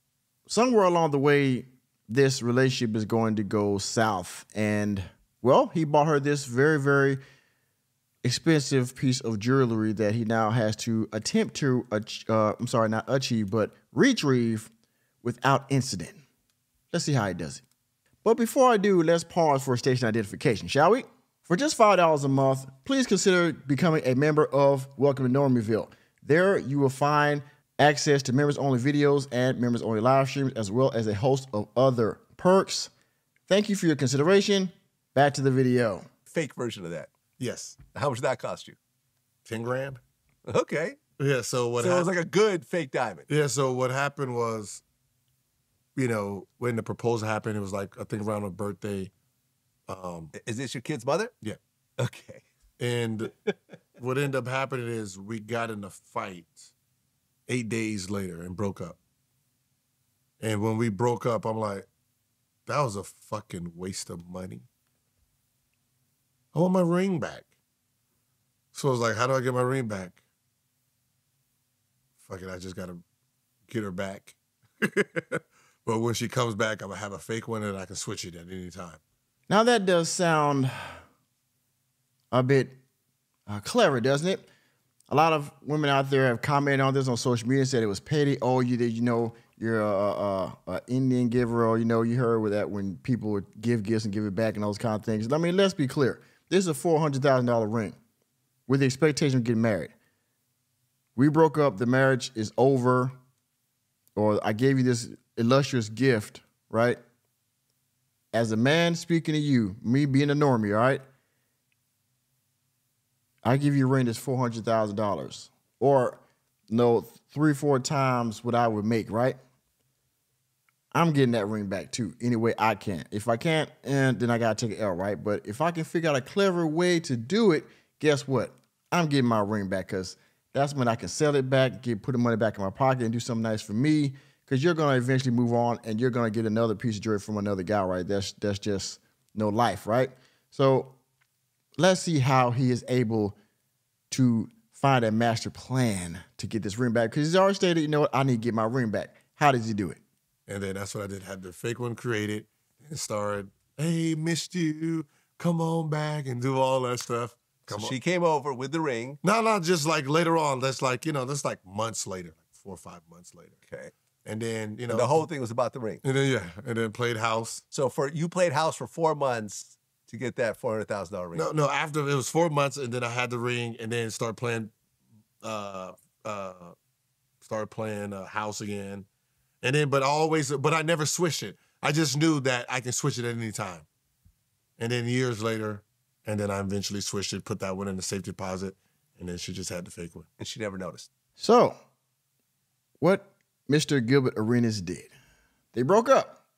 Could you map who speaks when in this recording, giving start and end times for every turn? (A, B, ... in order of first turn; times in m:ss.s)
0:00.5-0:07.2 A
0:08.2-0:14.7 A
0:15.2-0:16.2 A
0:16.9-0:17.6 A
0:18.2-0:32.9 A
0:33.5-0:36.1 A
0:36.3-0:37.1 B
0:37.4-0:37.8 C
0:38.0-0:38.8 B
0:39.4-0:40.0 C
0:40.5-0:41.0 B
0:41.2-0:42.1 C
0:41.8-0:43.3 B
0:43.3-0:44.8 C
0:46.0-0:49.1 C
0:49.9-0:50.3 C
0:50.3-0:51.3 B
0:52.0-0:52.4 B
0:52.8-0:53.3 C
0:54.0-0:56.7 C
0:57.5-0:59.0 C
1:00.4-1:01.9 C
1:02.7-1:04.7 C
1:06.5-1:07.5 C
1:08.7-1:10.2 C
1:12.2-1:13.0 C
1:13.7-1:19.0 C
1:19.5-1:20.7 A
1:22.3-1:22.8 A
1:23.5-1:24.4 A
1:25.1-1:38.0 A
1:38.7-1:39.9 A
1:41.2-1:43.1 A
1:44.2-1:47.0 A
1:48.3-1:51.0 A
1:53.4-1:59.4 A
2:00.9-2:21.0 A
2:21.8-2:23.4 A
2:24.1-2:30.0 A
2:30.5-2:38.0 C
2:37.7-2:39.2 B
2:39.2-2:43.6 C
2:44.2-2:45.3 C
2:44.9-2:46.0 B
2:46.0-2:47.6 C
2:47.7-2:51.5 B
2:51.3-2:54.7 C
2:55.4-2:56.8 C
2:57.4-2:59.1 C
2:59.6-3:03.9 C
3:04.8-3:10.3 C
3:10.4-3:11.1 B
3:11.4-3:11.8 A
3:13.0-3:15.1 A
3:15.7-3:16.4 A